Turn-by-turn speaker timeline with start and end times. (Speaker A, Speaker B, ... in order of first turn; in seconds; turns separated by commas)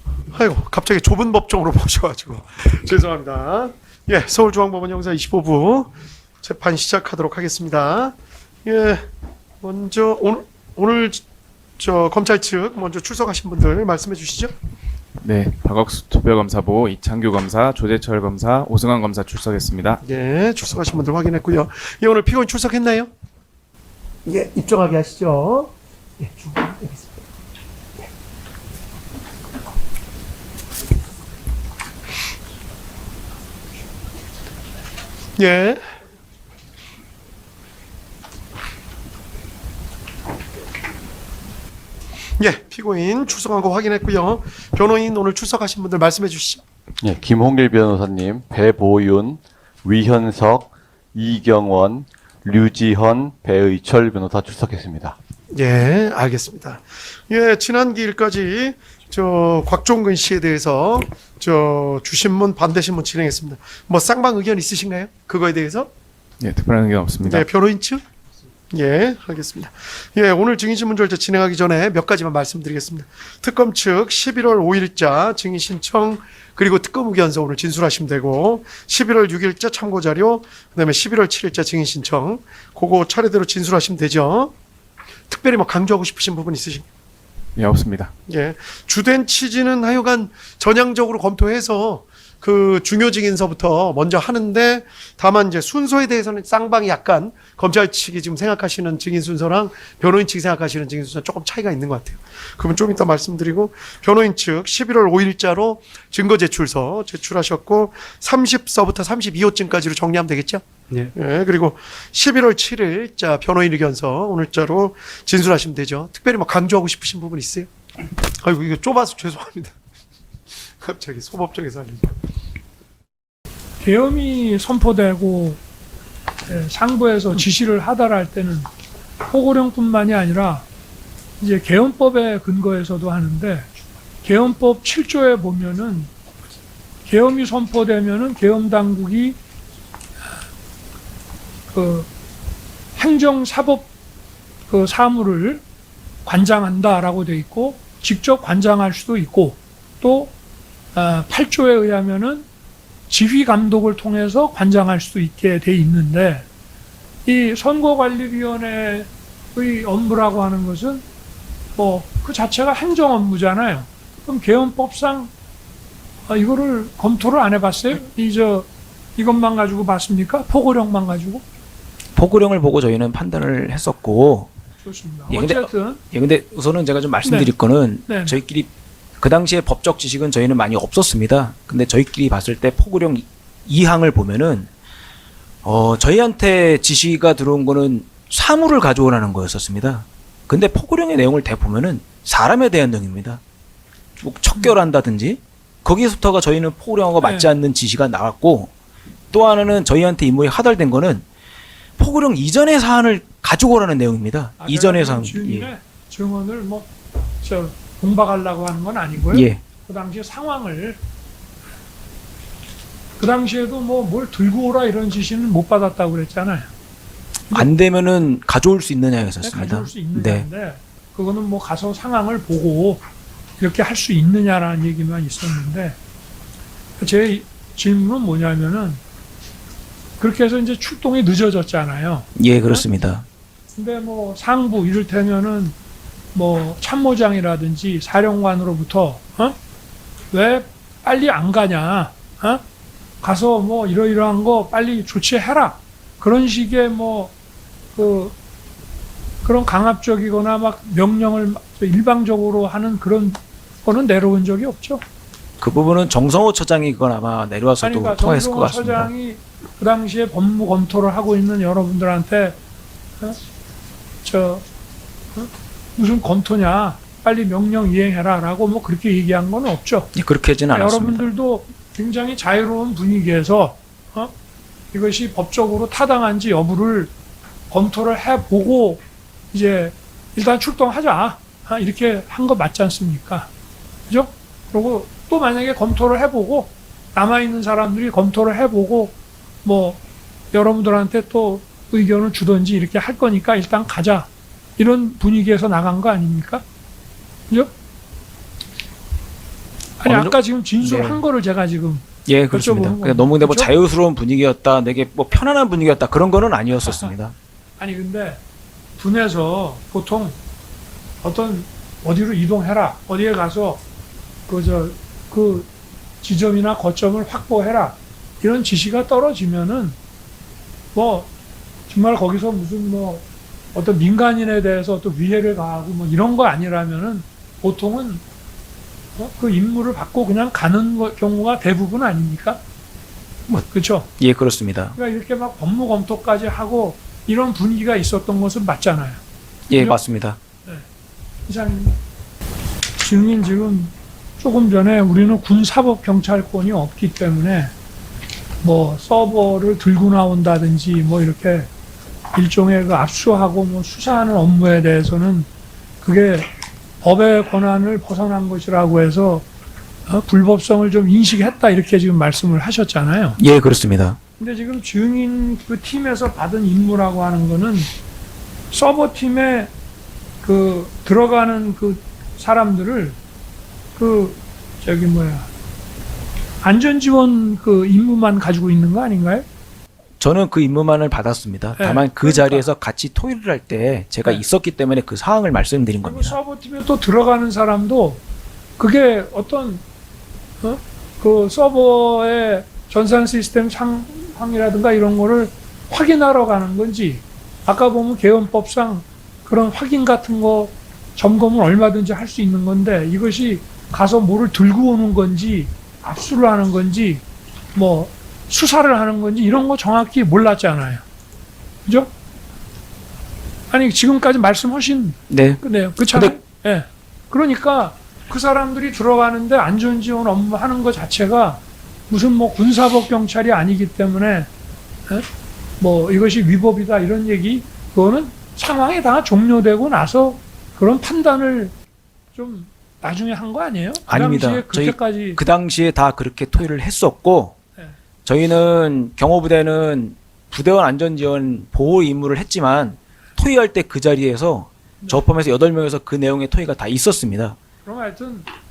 Speaker A: 0.3-9.1, Speaker A: 9.6-11.2, Speaker A: 11.8-14.5, Speaker B: 15.2-20.0, Speaker A: 20.0-23.1, Speaker A: 24.3-27.1, Speaker A: 35.4-35.8, Speaker A: 42.4-46.6, Speaker C: 47.0-55.2, Speaker A: 55.5-65.9, Speaker B: 66.4-67.5, Speaker A: 67.3-68.0, Speaker A: 68.7-84.5, Speaker A: 85.3-86.8, Speaker B: 87.6-88.1, Speaker A: 88.3-117.7, Speaker A: 118.4-119.7, Speaker A: 120.8-122.1, Speaker D: 123.8-125.6, Speaker D: 126.5-128.7, Speaker D: 129.2-130.7, Speaker D: 131.4-133.7, Speaker D: 134.2-136.1, Speaker D: 137.1-139.4, Speaker D: 141.7-142.1, Speaker D: 143.0-143.9, Speaker D: 144.7-145.6, Speaker D: 146.2-150.3, Speaker D: 150.9-152.5, Speaker D: 153.1-156.5, Speaker D: 157.2-161.0, Speaker D: 161.8-165.3, Speaker D: 166.3-171.4, Speaker E: 172.2-174.5, Speaker D: 174.8-176.0, Speaker E: 175.3-184.7, Speaker D: 177.2-177.5, Speaker D: 178.1-178.4, Speaker E: 185.6-193.4, Speaker E: 194.2-198.7, Speaker D: 197.2-197.5, Speaker E: 199.3-201.2, Speaker E: 202.0-205.7, Speaker D: 204.6-206.9, Speaker D: 207.4-211.0, Speaker E: 209.3-209.6, Speaker D: 213.2-216.7, Speaker E: 217.5-220.5, Speaker D: 219.4-223.0, Speaker D: 223.6-226.0, Speaker D: 227.0-229.0, Speaker D: 230.2-232.8, Speaker E: 232.4-233.2, Speaker D: 233.8-235.8, Speaker D: 236.3-239.6, Speaker D: 240.3-242.6, Speaker D: 243.2-247.3, Speaker D: 247.9-248.3, Speaker D: 249.4-255.0, Speaker E: 255.6-259.1, Speaker D: 257.8-262.6, Speaker D: 264.2-264.6, Speaker D: 265.3-270.1, Speaker E: 270.1-271.3, Speaker D: 270.7-274.3, Speaker D: 274.9-277.1, Speaker D: 277.7-283.5, Speaker D: 284.1-290.0, Speaker D: 290.5-296.6, Speaker D: 300.0-303.7, Speaker E: 300.0-301.2, Speaker E: 302.3-307.3, Speaker D: 306.8-307.1, Speaker D: 307.8-308.4, Speaker D: 309.0-310.4, Speaker D: 311.2-313.8, Speaker D: 314.5-315.7, Speaker D: 316.2-320.0, Speaker D: 320.9-321.3, Speaker D: 321.9-328.2, Speaker D: 329.2-332.6, Speaker D: 333.7-334.1, Speaker E: 334.2-334.9, Speaker D: 334.9-339.2, Speaker E: 339.7-340.4, Speaker D: 341.5-342.0, Speaker D: 343.0-347.7, Speaker D: 348.6-351.7, Speaker D: 352.3-355.5, Speaker D: 356.0-356.5, Speaker D: 357.0-359.5, Speaker D: 360.1-363.4, Speaker E: 363.4-364.2, Speaker D: 364.4-367.9, Speaker D: 368.7-369.7, Speaker D: 370.4-373.2, Speaker D: 374.0-375.5, Speaker D: 376.6-379.5, Speaker E: 380.2-386.4, Speaker D: 381.8-382.7, Speaker D: 386.0-388.2, Speaker D: 388.8-389.8, Speaker D: 390.6-407.2, Speaker D: 407.7-411.0, Speaker D: 411.9-412.1, Speaker D: 413.7-424.5, Speaker E: 415.3-416.3, Speaker D: 425.8-431.7, Speaker D: 432.3-435.4, Speaker E: 434.1-437.6, Speaker E: 438.2-447.6, Speaker D: 447.8-448.5